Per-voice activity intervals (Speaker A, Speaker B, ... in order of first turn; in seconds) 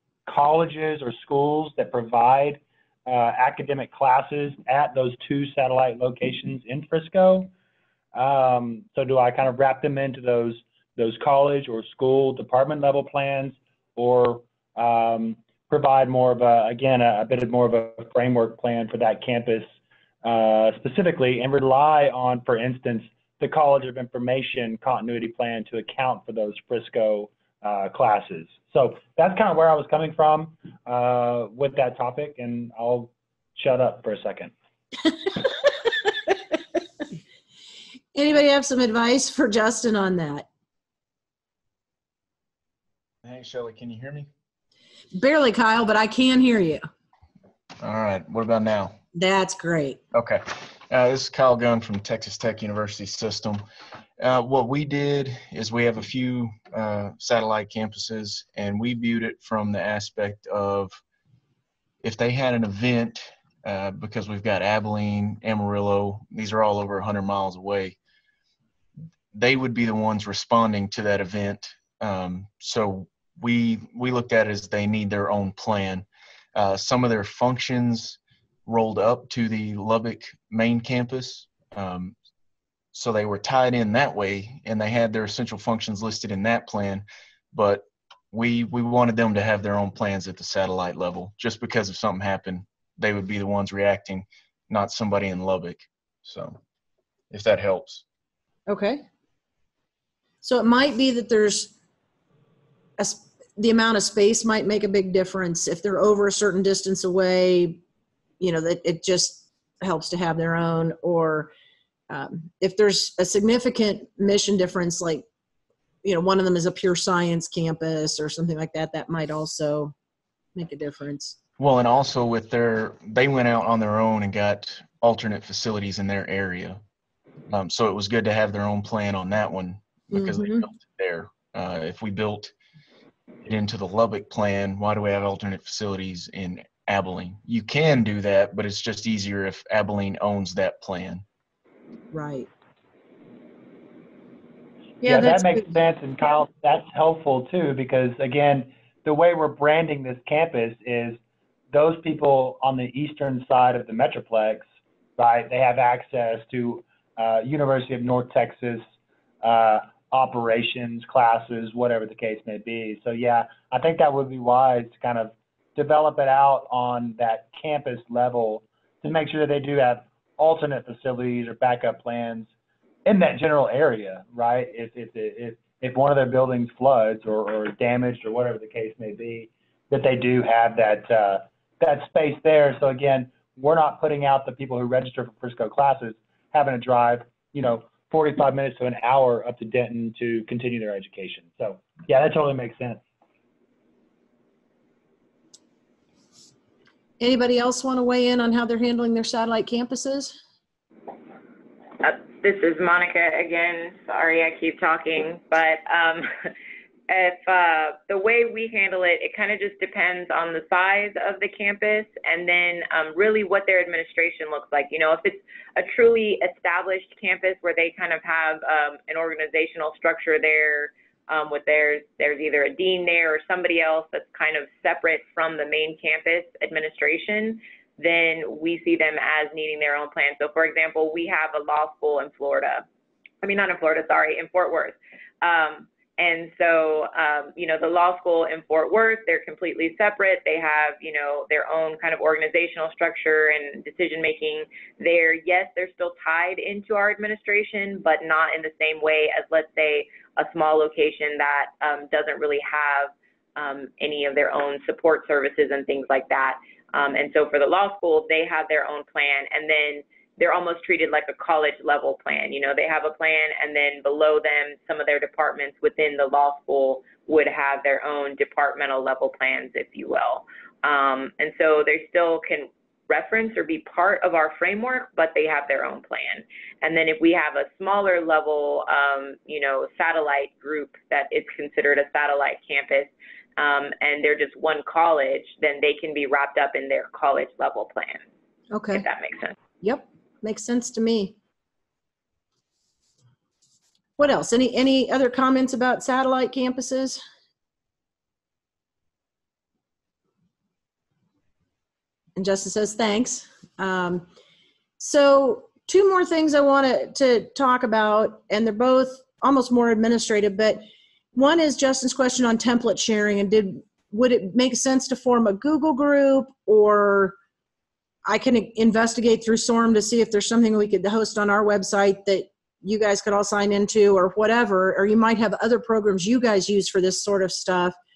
Speaker A: 0.3-7.5, 8.1-19.7, 20.2-34.5, 145.1-151.2, 151.7-154.7, 155.2-158.8, 159.4-172.5, 173.1-193.0
Speaker B: 35.3-36.4, 38.1-40.5, 45.1-46.8, 49.1-50.0, 98.7-99.0, 100.4-101.7, 103.0-107.8, 108.4-111.5, 112.1-115.2, 116.0-119.9, 120.6-121.4, 130.1-130.7, 142.1-142.5, 145.0-145.8, 197.2-200.4, 288.7-289.1, 289.8-291.4, 294.2-297.2, 302.4-304.3, 305.0-317.4, 318.3-328.0
Speaker C: 43.2-44.3, 47.8-49.0, 50.1-53.6, 54.2-61.0, 62.0-68.0, 69.3-82.2, 82.9-96.6, 97.3-98.0, 121.6-126.8, 127.5-132.5, 133.4-141.2
Speaker D: 202.0-206.5, 207.1-232.8, 233.4-288.2, 288.9-289.6